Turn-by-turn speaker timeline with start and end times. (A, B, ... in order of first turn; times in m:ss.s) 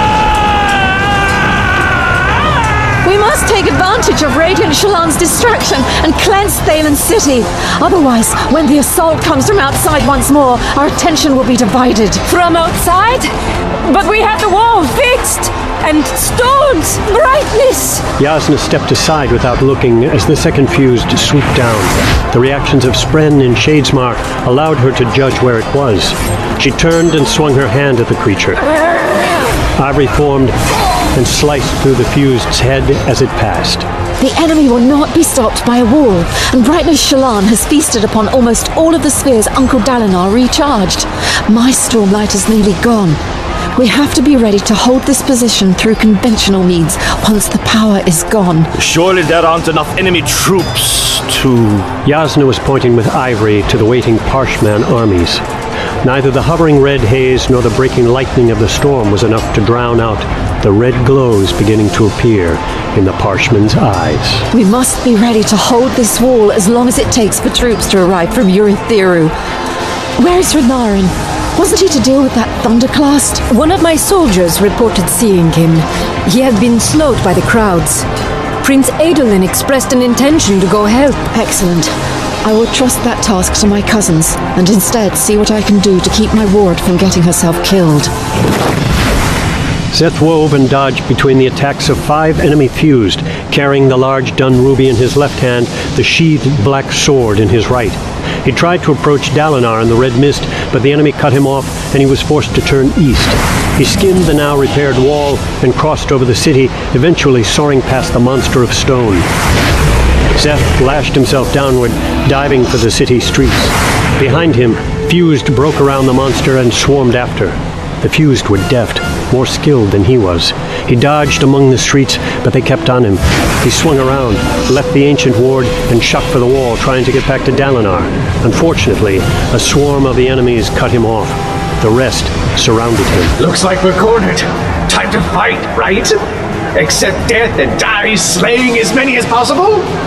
0:03.0-0:12.2 A
0:12.3-0:13.3 B
0:13.8-0:18.0 B
0:18.2-0:28.6 C
0:29.8-0:30.5 C
0:31.1-0:33.8 C
0:34.2-0:43.2 A
0:43.8-0:48.7 A
0:48.8-0:51.8 D
0:52.0-0:55.4 C
0:56.0-1:04.5 C
1:04.5-1:09.3 A
1:10.2-1:13.4 A
1:13.5-1:18.0 B
1:18.6-1:21.2 B
1:21.3-1:21.9 A
1:22.4-1:28.1 A
1:29.9-1:49.3 C
1:50.4-2:13.3 C
2:13.4-2:16.2 D
2:16.8-2:19.9 D